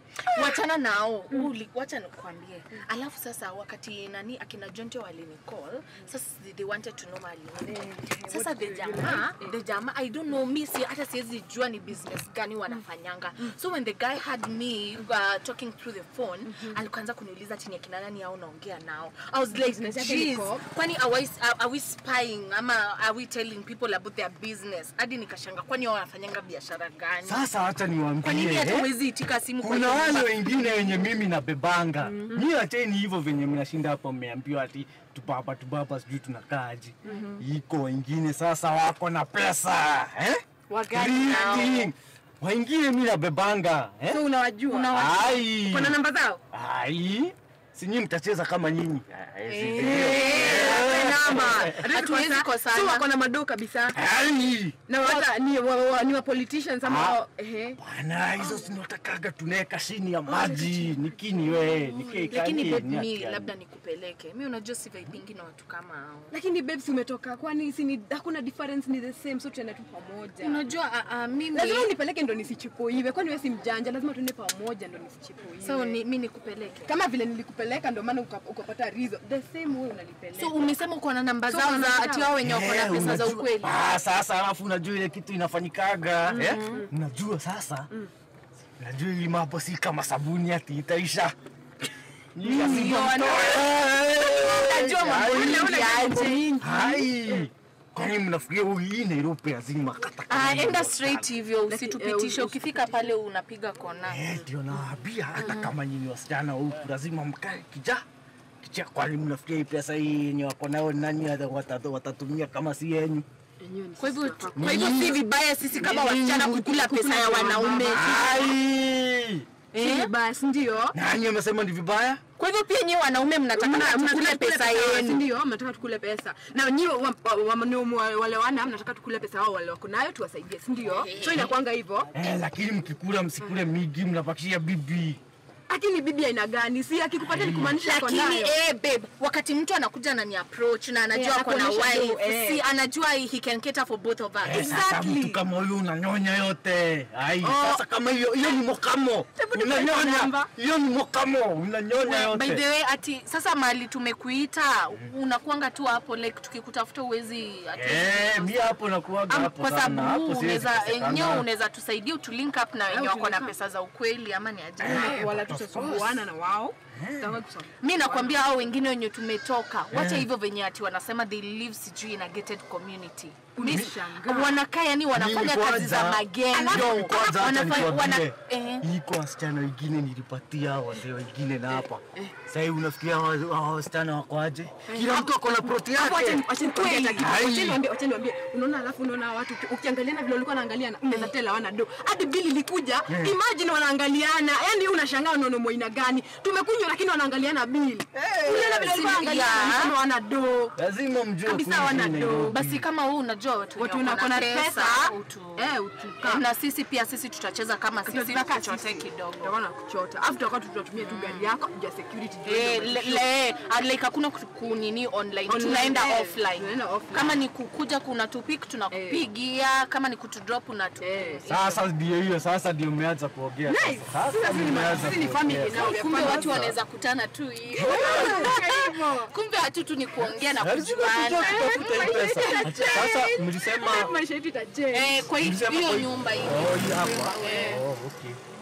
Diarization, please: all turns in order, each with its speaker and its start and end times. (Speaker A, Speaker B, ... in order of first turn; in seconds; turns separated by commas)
Speaker A: 0.3-27.5, Speaker B: 0.3-0.6, Speaker B: 7.7-9.6, Speaker B: 16.5-16.8, Speaker B: 19.6-20.6, Speaker C: 27.2-28.9, Speaker A: 28.2-30.6, Speaker C: 29.6-44.2, Speaker B: 37.0-37.3, Speaker A: 37.0-37.4, Speaker A: 40.7-41.9, Speaker B: 44.1-44.9, Speaker A: 44.7-45.5, Speaker C: 44.9-46.0, Speaker B: 45.6-46.4, Speaker C: 46.5-51.8, Speaker A: 49.5-53.1, Speaker B: 49.8-54.0, Speaker C: 54.0-54.9, Speaker B: 54.9-57.8, Speaker C: 56.8-57.2, Speaker C: 57.8-63.5, Speaker B: 60.3-61.0, Speaker B: 61.5-62.3, Speaker A: 62.1-66.3, Speaker B: 66.3-70.7, Speaker A: 70.4-71.9, Speaker B: 71.5-76.0, Speaker A: 75.6-76.9, Speaker B: 76.8-80.7, Speaker A: 80.3-83.7, Speaker B: 81.5-82.4, Speaker C: 82.4-87.9, Speaker B: 86.3-86.9, Speaker A: 86.4-86.9, Speaker C: 88.8-91.3, Speaker C: 92.3-95.7, Speaker A: 92.4-93.7, Speaker B: 92.6-93.0, Speaker A: 94.4-96.5, Speaker B: 95.2-97.5, Speaker C: 96.6-101.3, Speaker A: 100.3-104.4, Speaker B: 101.7-103.1, Speaker C: 104.0-108.0, Speaker A: 105.4-105.7, Speaker C: 108.6-113.3, Speaker B: 113.6-115.2, Speaker A: 114.0-118.5, Speaker C: 114.5-115.2, Speaker B: 115.7-118.2, Speaker C: 115.8-116.4, Speaker C: 117.9-119.5, Speaker B: 119.7-121.0, Speaker A: 119.7-120.1, Speaker C: 120.9-122.2, Speaker A: 122.4-125.3, Speaker B: 123.5-132.1, Speaker A: 130.8-131.5, Speaker C: 132.1-135.2, Speaker B: 135.7-138.6, Speaker C: 137.2-137.8, Speaker A: 137.8-144.7, Speaker B: 141.1-142.6, Speaker C: 144.4-152.6, Speaker B: 144.4-145.4, Speaker B: 147.4-147.8, Speaker B: 149.4-150.5, Speaker A: 152.0-158.8, Speaker C: 157.8-161.5, Speaker A: 159.3-165.3, Speaker B: 162.9-163.5, Speaker C: 164.8-166.2, Speaker B: 164.8-168.5, Speaker C: 166.9-167.3, Speaker A: 167.8-178.8, Speaker C: 169.9-170.3, Speaker B: 173.6-174.6, Speaker C: 173.6-173.9, Speaker C: 175.1-186.5, Speaker B: 176.5-177.1, Speaker B: 181.8-182.3, Speaker B: 184.9-200.8, Speaker A: 186.5-187.3, Speaker C: 187.2-187.8, Speaker A: 191.1-191.3, Speaker C: 193.1-193.4, Speaker C: 198.1-198.9, Speaker A: 198.5-199.9, Speaker C: 200.8-202.8, Speaker B: 201.5-202.6, Speaker A: 202.5-209.6, Speaker B: 203.8-206.4, Speaker B: 208.1-213.3, Speaker A: 211.0-211.5, Speaker A: 212.4-221.8, Speaker B: 215.5-217.4, Speaker B: 218.9-219.3, Speaker B: 221.0-221.4, Speaker C: 221.5-226.8, Speaker B: 223.7-226.7, Speaker A: 225.7-233.0, Speaker B: 227.8-229.3, Speaker C: 227.8-228.6, Speaker C: 230.2-234.1, Speaker B: 231.3-235.3, Speaker A: 234.9-237.9, Speaker C: 235.3-238.4, Speaker B: 237.4-237.8